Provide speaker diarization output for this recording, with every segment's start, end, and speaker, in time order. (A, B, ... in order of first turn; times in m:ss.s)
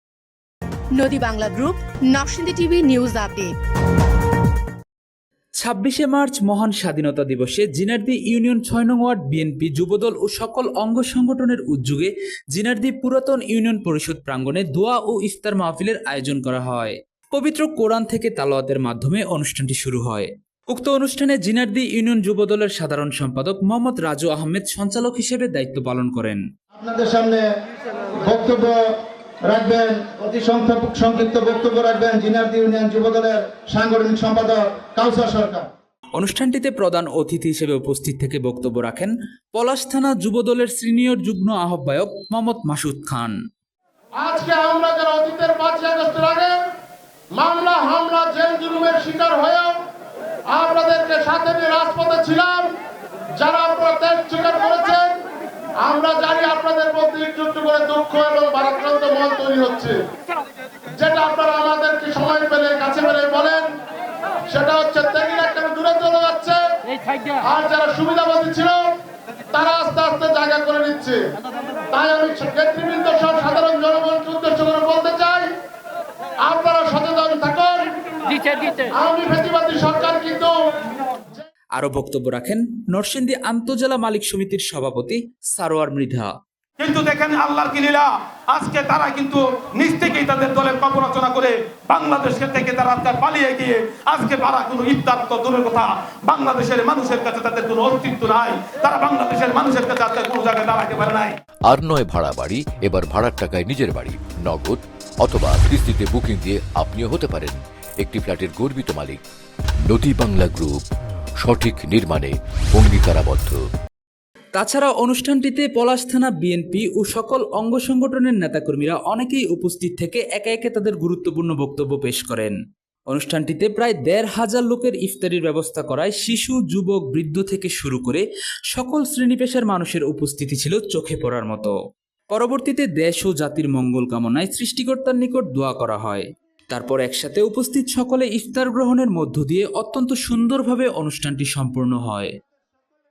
0:01.0-0:03.5 A
0:05.6-0:26.4 B
0:26.7-0:27.4 C
0:28.2-0:28.9 C
0:29.4-0:35.7 C
0:36.2-0:43.4 B
0:44.2-0:46.6 D
0:47.4-0:49.8 D
0:50.5-0:52.7 D
0:53.4-0:55.2 D
0:55.8-1:00.0 D
1:01.0-1:03.7 D
1:04.5-1:06.6 D
1:07.4-1:08.9 D
1:09.5-1:11.2 D
1:11.9-1:15.5 D
1:16.4-1:17.9 D
1:18.9-1:20.5 D
1:21.7-1:26.3 B
1:26.8-1:41.3 E
1:41.6-1:49.2 F
1:49.8-1:50.8 F
1:51.4-1:53.6 F
1:54.5-2:02.6 B
2:03.1-2:11.8 B
2:12.3-2:22.3 B